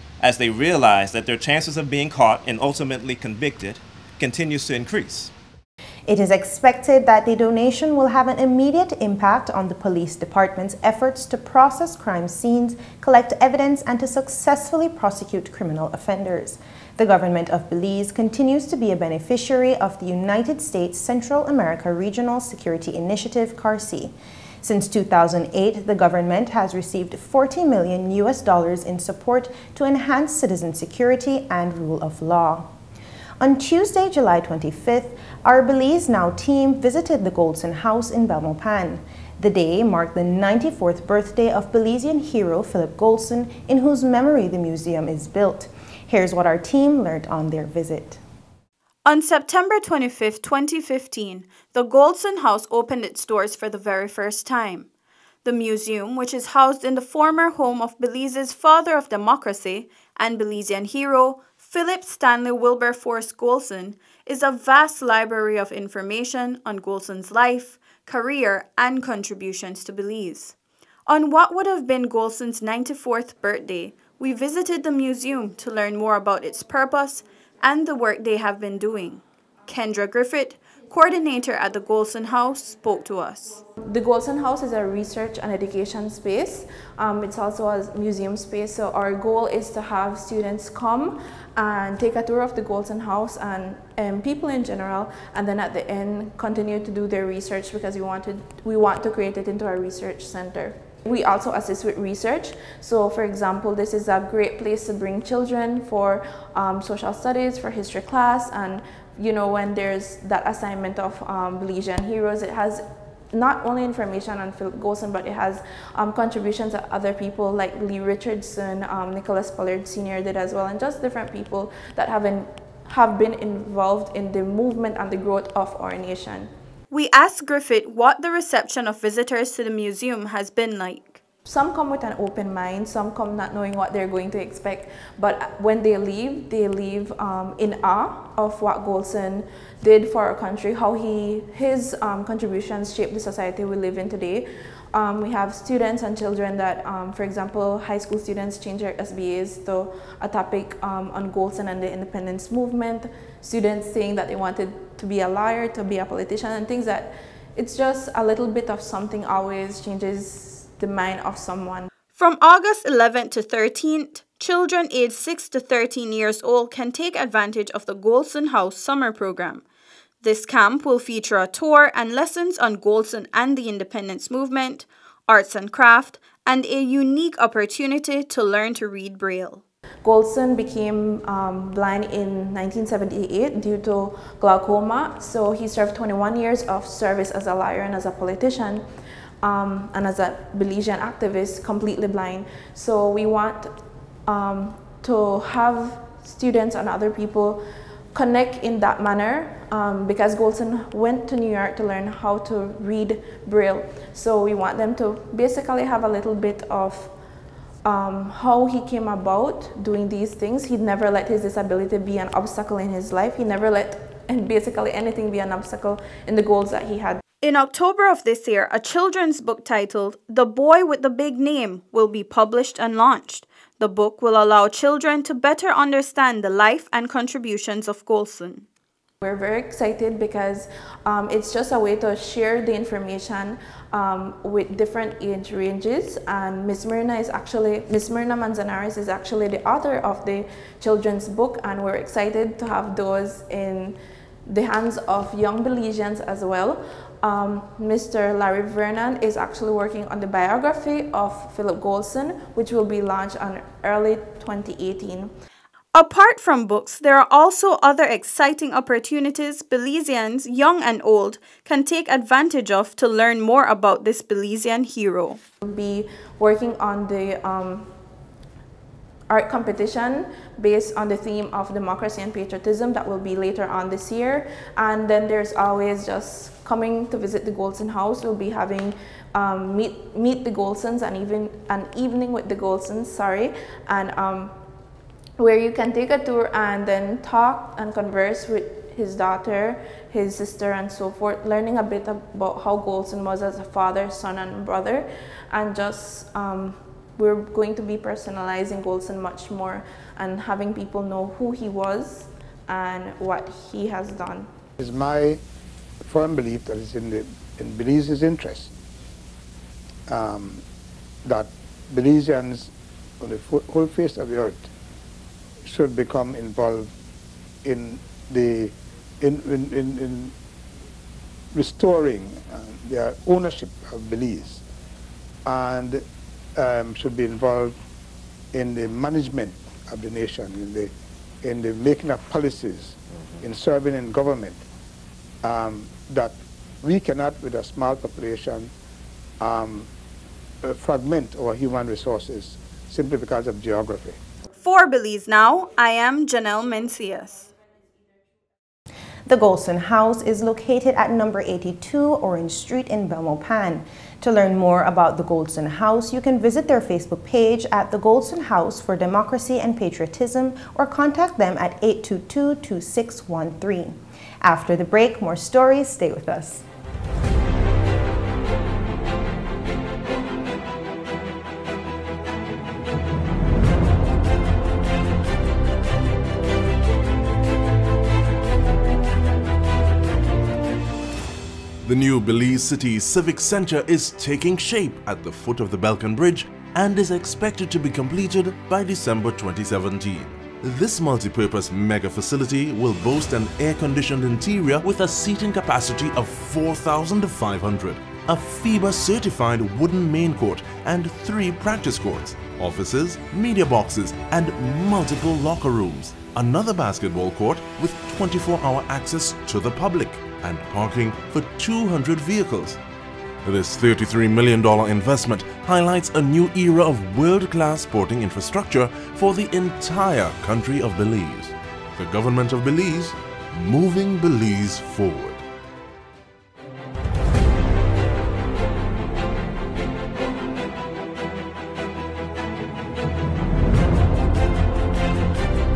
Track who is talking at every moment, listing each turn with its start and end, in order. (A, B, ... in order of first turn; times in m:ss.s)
0:00.2-0:05.3 A
0:06.1-0:32.7 B
0:33.4-0:48.2 B
0:49.0-0:54.9 C
0:55.4-1:10.6 C
1:11.1-1:23.6 C
1:23.8-2:06.5 D
2:06.9-2:11.2 C
2:11.4-2:41.9 D
2:42.1-2:49.6 C
2:50.2-2:59.6 C
3:00.0-3:08.8 D
3:09.4-3:13.7 D
3:14.3-3:17.6 D
3:18.1-3:27.1 D
3:27.8-3:37.2 D
3:37.4-3:48.7 C
3:49.2-4:15.3 D
4:15.9-4:25.4 C
4:25.6-4:27.9 D
4:29.3-4:44.5 D
4:45.4-5:04.5 D
5:04.8-5:05.4 E
5:06.0-5:08.7 E
5:10.1-5:10.6 E
5:11.2-5:14.7 E
5:15.6-5:16.9 E
5:17.6-5:20.3 E
5:21.5-5:24.6 E
5:25.4-5:26.0 E
5:26.6-5:27.8 E
5:28.5-5:34.6 E
5:35.4-5:38.7 E
5:39.4-5:39.9 E
5:40.6-5:44.2 E
5:44.5-5:47.5 C
5:49.3-6:06.6 B
6:21.8-6:52.8 F
6:53.4-7:05.4 F